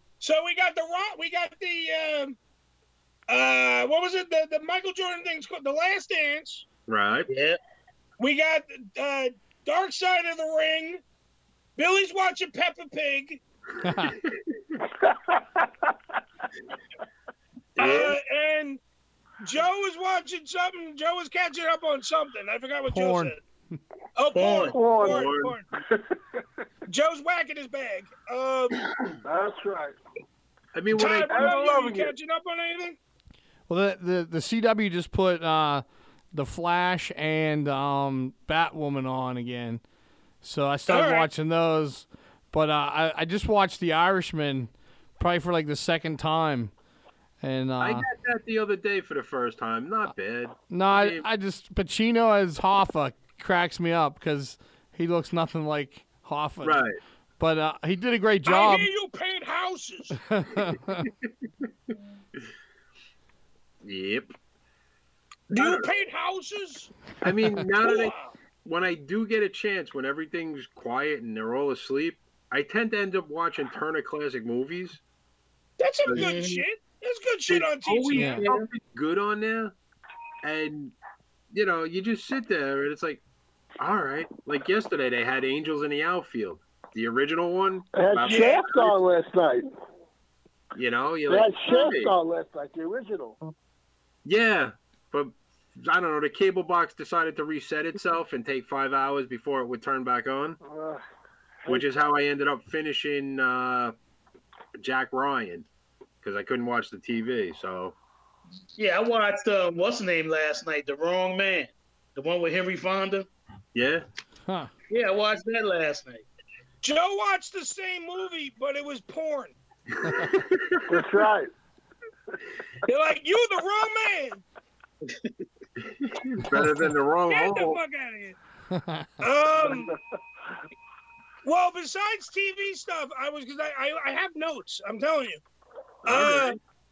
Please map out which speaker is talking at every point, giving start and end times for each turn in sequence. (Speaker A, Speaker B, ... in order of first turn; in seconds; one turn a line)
Speaker A: 0.2-2.4
Speaker A: 3.3-6.6
Speaker B: 6.9-7.3
Speaker C: 7.3-7.6
Speaker A: 8.2-11.0
Speaker A: 11.8-13.4
Speaker D: 13.8-14.1
Speaker B: 17.8-18.2
Speaker A: 17.8-18.8
Speaker A: 19.4-23.4
Speaker D: 22.9-23.3
Speaker A: 24.2-25.6
Speaker C: 24.4-24.8
Speaker E: 24.7-25.3
Speaker B: 25.0-25.5
Speaker A: 26.9-28.8
Speaker E: 29.2-29.9
Speaker B: 30.7-32.1
Speaker A: 30.9-33.0
Speaker E: 31.3-32.1
Speaker D: 33.7-39.8
Speaker D: 40.4-46.7
Speaker A: 40.9-41.3
Speaker D: 47.4-48.1
Speaker B: 47.8-51.2
Speaker D: 50.7-56.8
Speaker B: 56.6-57.0
Speaker D: 57.4-58.9
Speaker A: 58.5-60.2
Speaker D: 60.3-61.0
Speaker B: 63.8-64.3
Speaker A: 65.5-66.9
Speaker B: 65.5-65.9
Speaker B: 67.2-75.0
Speaker A: 67.8-68.3
Speaker A: 75.8-78.4
Speaker C: 76.1-76.6
Speaker B: 77.5-79.7
Speaker D: 78.2-78.4
Speaker C: 78.3-78.6
Speaker B: 80.4-81.0
Speaker B: 81.5-83.2
Speaker B: 83.8-89.0
Speaker E: 88.0-89.6
Speaker B: 90.7-92.1
Speaker E: 91.3-93.4
Speaker B: 94.2-100.6
Speaker E: 100.6-101.0
Speaker B: 101.7-103.9
Speaker B: 104.8-105.7
Speaker B: 106.2-108.0
Speaker C: 108.8-113.3
Speaker B: 113.7-114.0
Speaker C: 114.9-116.2
Speaker A: 116.8-119.6
Speaker B: 120.0-120.8
Speaker E: 120.9-121.5
Speaker A: 122.9-124.4
Speaker B: 125.8-127.8
Speaker A: 127.3-128.4
Speaker D: 128.7-129.1
Speaker A: 129.2-129.9
Speaker E: 129.6-130.0
Speaker A: 131.4-135.4
Speaker B: 136.1-136.6
Speaker A: 136.1-136.6